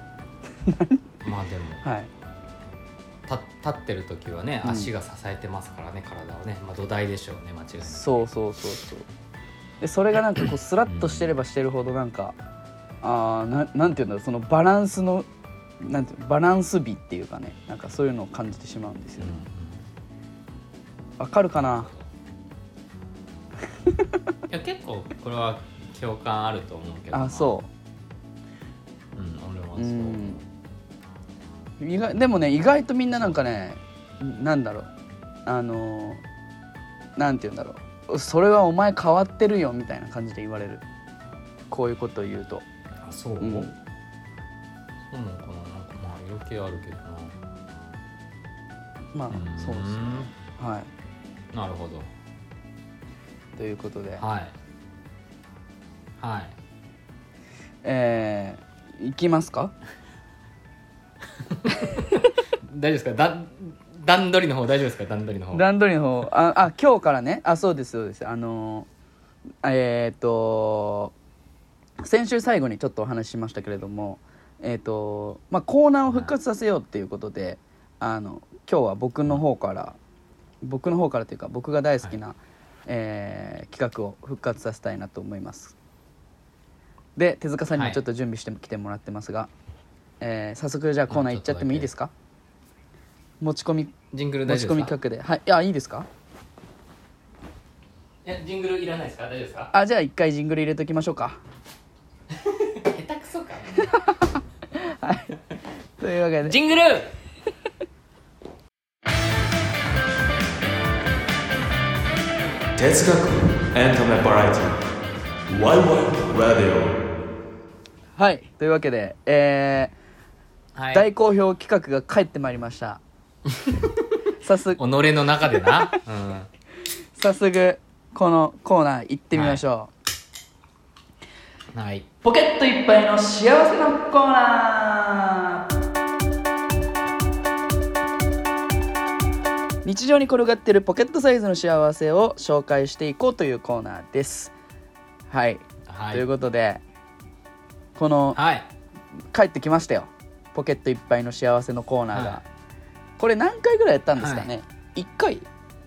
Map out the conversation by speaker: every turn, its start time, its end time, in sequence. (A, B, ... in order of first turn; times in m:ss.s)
0:00.6-0:01.0 A
0:01.2-0:01.8 B
0:01.8-0:02.1 A
0:03.3-0:08.2 B
0:04.6-0:04.9 A
0:07.9-0:09.1 A
0:09.8-0:12.4 A
0:10.4-0:11.3 B
0:13.0-0:15.3 A
0:15.8-0:19.4 A
0:19.2-0:19.8 B
0:21.2-0:21.9 A
0:21.7-0:22.0 B
0:23.8-0:24.2 A
0:24.5-0:27.5 B
0:27.1-0:27.7 A
0:29.2-0:30.4 B
0:29.8-0:30.4 A
0:31.8-0:34.9 A
0:33.1-0:33.4 B
0:35.4-0:36.2 A
0:37.2-0:40.8 A
0:41.7-0:42.6 A
0:43.0-0:43.7 B
0:43.4-0:43.7 A
0:45.1-0:47.3 B
0:49.1-0:50.9 A
0:49.3-0:50.3 B
0:51.5-0:52.1 B
0:53.6-0:54.2 A
0:54.2-0:54.5 B
0:56.2-0:56.5 B
0:57.8-0:59.7 A
1:01.3-1:05.6 B
1:05.5-1:08.9 A
1:09.6-1:11.1 A
1:12.0-1:20.0 A
1:16.1-1:16.3 B
1:20.6-1:25.7 A
1:27.2-1:29.5 A
1:27.7-1:28.0 B
1:30.2-1:32.1 A
1:31.1-1:31.9 B
1:33.4-1:33.9 A
1:34.1-1:35.0 B
1:34.4-1:36.1 A
1:38.2-1:39.7 B
1:39.7-1:41.4 A
1:42.3-1:44.0 B
1:44.7-1:45.4 A
1:46.0-1:46.6 A
1:46.4-1:47.1 B
1:52.8-1:54.8 C
1:55.5-1:57.0 C
1:58.2-1:59.9 A
2:00.7-2:01.1 B
2:00.9-2:03.0 A
2:03.5-2:04.1 B
2:04.4-2:04.8 A
2:04.7-2:06.5 B
2:07.1-2:09.9 A
2:09.3-2:09.6 B
2:11.7-2:12.1 B
2:12.2-2:15.6 A
2:19.8-2:24.5 A
2:25.3-2:26.8 A
2:25.9-2:26.3 B
2:28.0-2:28.4 A
2:28.3-2:28.7 B
2:29.3-2:32.4 A
2:32.1-2:32.4 B
2:33.2-2:35.5 A
2:34.2-2:34.5 B